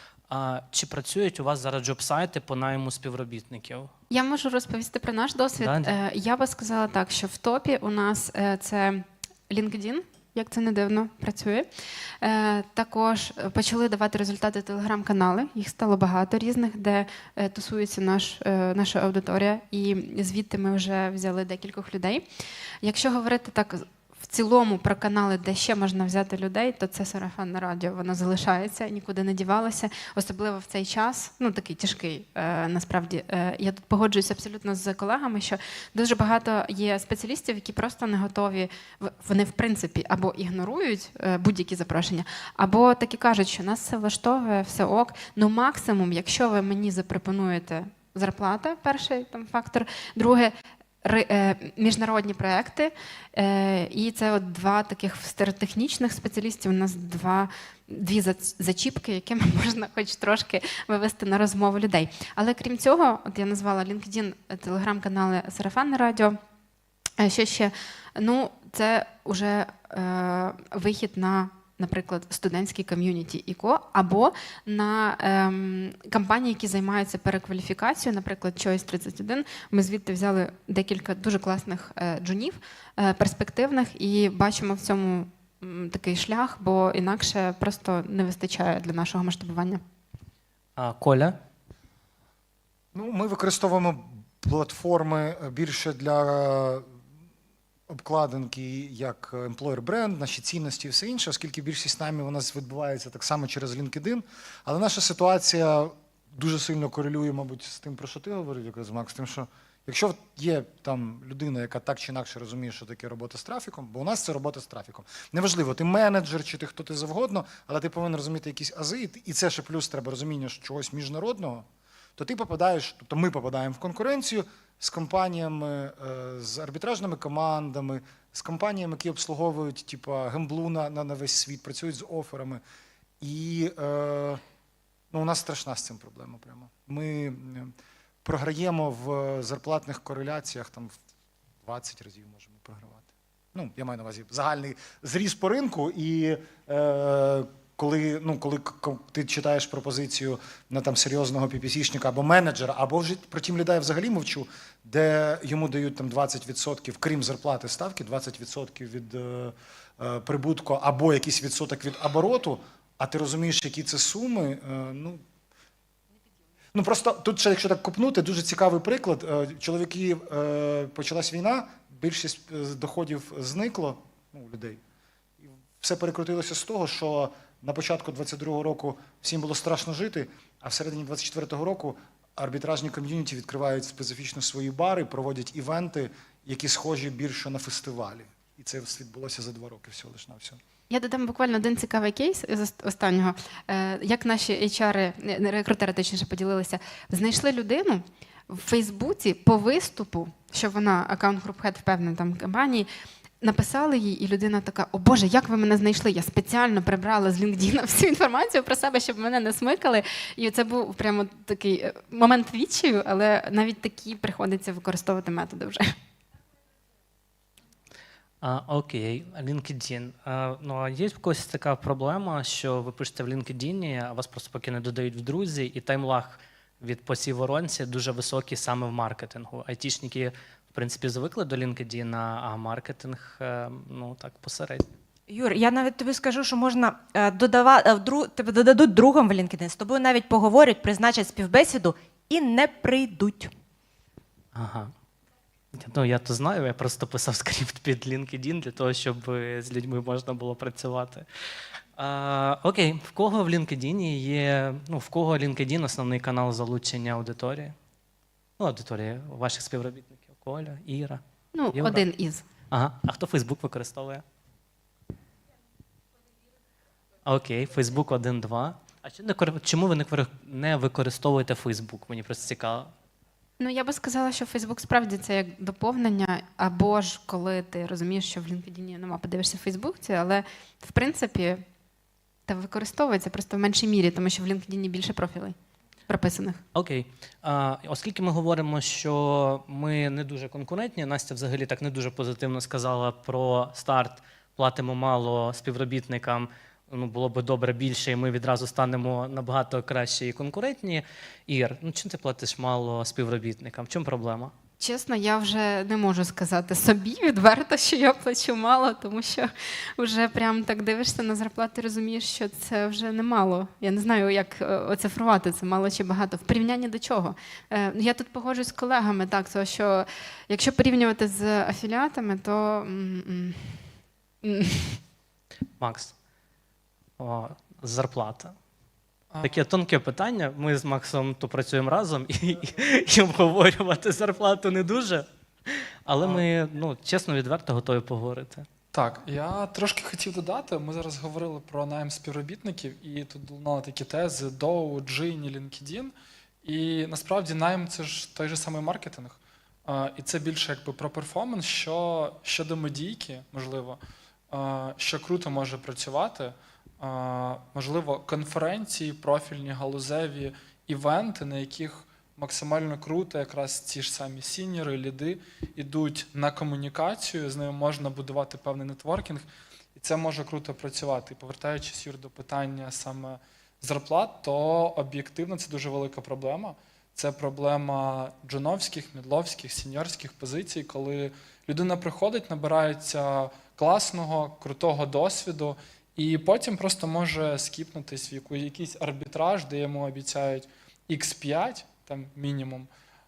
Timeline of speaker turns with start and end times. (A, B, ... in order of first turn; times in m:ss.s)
0:00.3-0:03.9 A
0:04.1-0:11.7 B
0:05.6-0:05.9 A
0:12.2-0:22.2 B
0:22.8-1:06.4 B
1:07.2-1:29.8 B
1:30.8-1:31.4 A
1:32.9-1:36.9 C
1:37.9-2:01.6 C
2:02.2-2:12.6 C
2:13.2-2:14.4 C
2:15.1-2:17.7 C
2:18.2-2:20.9 C
2:21.6-2:45.2 C
2:46.7-2:54.8 C
2:55.4-3:10.6 C
3:10.9-3:22.9 B
3:23.4-3:35.8 B
3:38.4-3:54.9 A
3:55.3-4:03.5 D
4:04.5-4:04.9 A
4:05.7-4:11.2 A
4:12.0-4:17.7 A
4:18.6-4:21.2 A
4:21.5-4:22.4 B
4:21.7-4:22.0 A
4:22.7-4:24.2 A
4:27.2-4:32.9 A
4:33.6-4:41.6 B
4:42.5-4:45.5 B
4:46.1-4:46.6 B
4:46.7-5:04.5 A
5:04.8-5:23.9 B
5:24.4-5:25.0 B
5:25.8-5:26.1 A
5:27.2-5:28.5 A
5:29.3-5:29.6 E
5:29.4-5:38.6 A
5:38.9-5:46.1 E
5:46.6-5:54.0 E
5:54.5-6:32.9 E